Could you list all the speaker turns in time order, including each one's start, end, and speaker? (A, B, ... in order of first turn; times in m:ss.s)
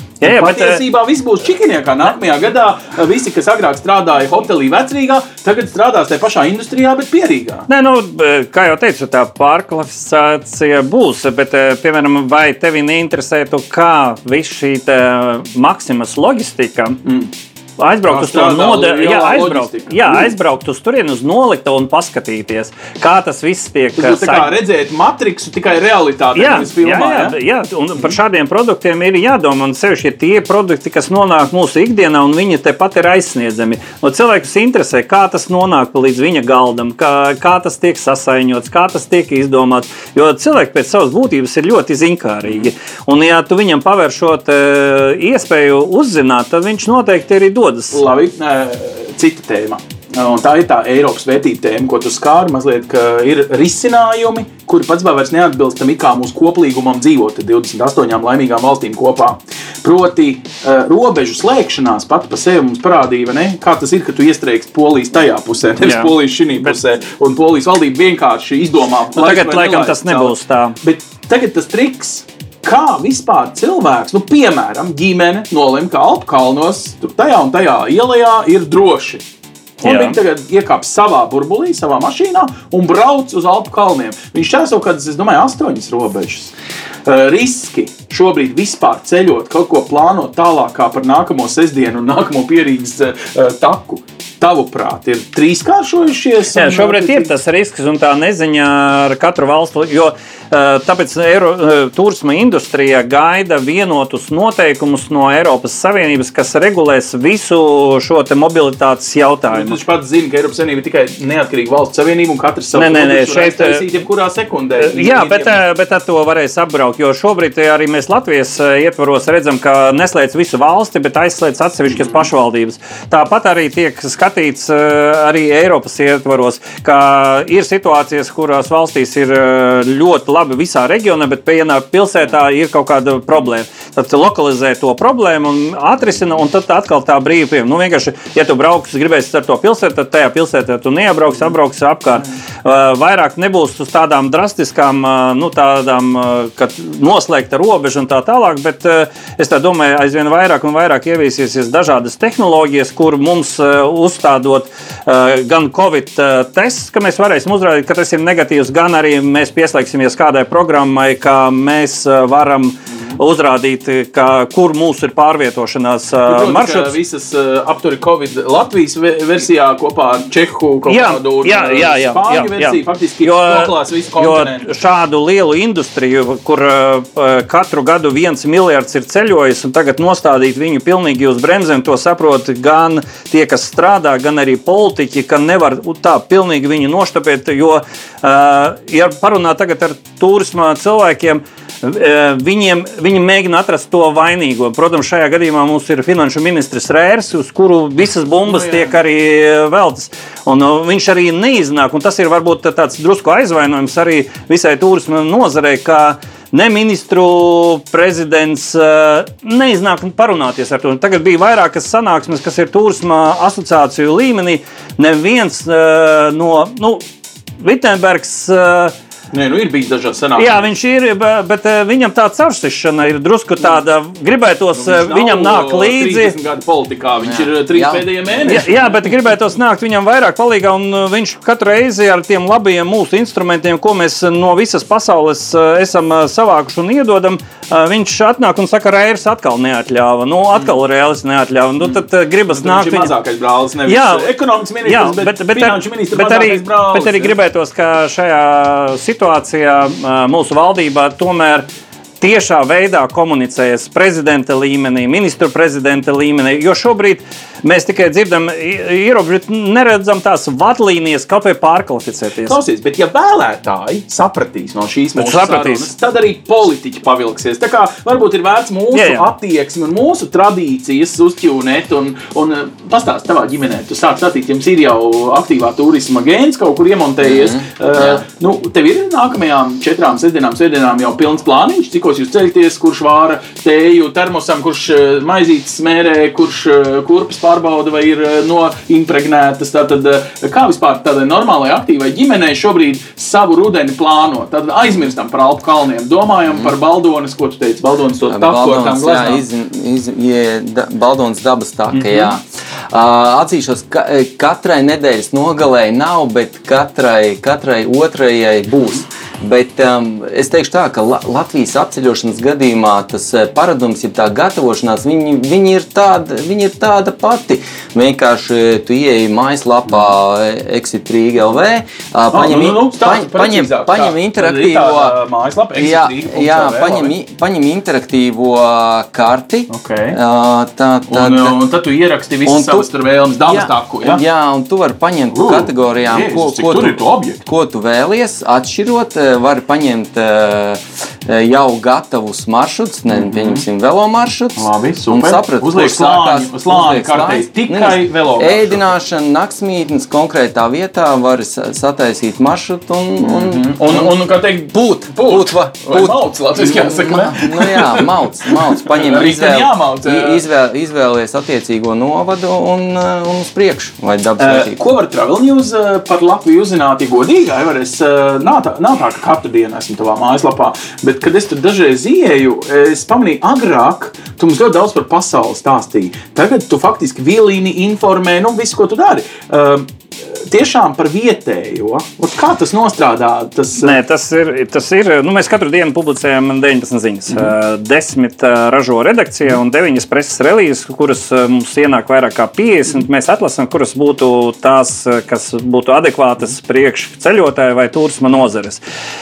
0:00.2-0:00.8 A
0:00.2-0:07.7 B
0:07.7-0:17.0 A
0:17.0-0:17.3 B
0:17.8-0:24.5 A
0:18.1-0:20.3 B
0:24.0-0:27.4 B
0:26.4-0:48.0 A
0:47.9-1:19.2 B
1:05.8-1:06.7 A
1:09.2-1:10.8 A
1:19.8-1:26.5 B
1:19.8-1:20.2 A
1:27.1-1:37.3 B
1:36.6-1:49.8 A
1:49.5-1:55.6 B
1:52.8-1:53.8 A
1:54.8-2:46.9 A
2:02.0-2:02.3 B
2:46.3-2:54.7 B
2:50.9-3:37.0 A
3:18.4-3:18.9 B
3:37.6-3:38.9 A
3:39.3-3:40.7 B
3:40.4-3:46.4 A
3:44.8-3:48.9 B
3:47.2-3:48.1 C
3:48.5-4:03.1 A
4:02.5-4:07.4 B
4:03.9-4:04.3 A
4:04.8-4:11.7 A
4:12.2-4:22.6 A
4:22.5-4:59.4 B
4:25.2-4:25.9 A
4:28.9-4:29.3 A
4:37.2-4:38.2 C
4:58.3-5:25.2 C
5:01.9-5:02.3 B
5:22.3-5:27.1 B
5:25.8-5:31.6 C
5:29.7-5:30.2 B
5:31.1-5:34.2 B
5:32.5-5:32.9 C
5:33.5-5:54.2 C
5:35.3-5:37.4 B
5:43.1-5:43.6 B
5:44.6-5:48.9 B
5:53.2-6:00.4 B
5:54.7-6:04.8 C
6:04.4-6:24.0 B
6:23.8-6:38.8 A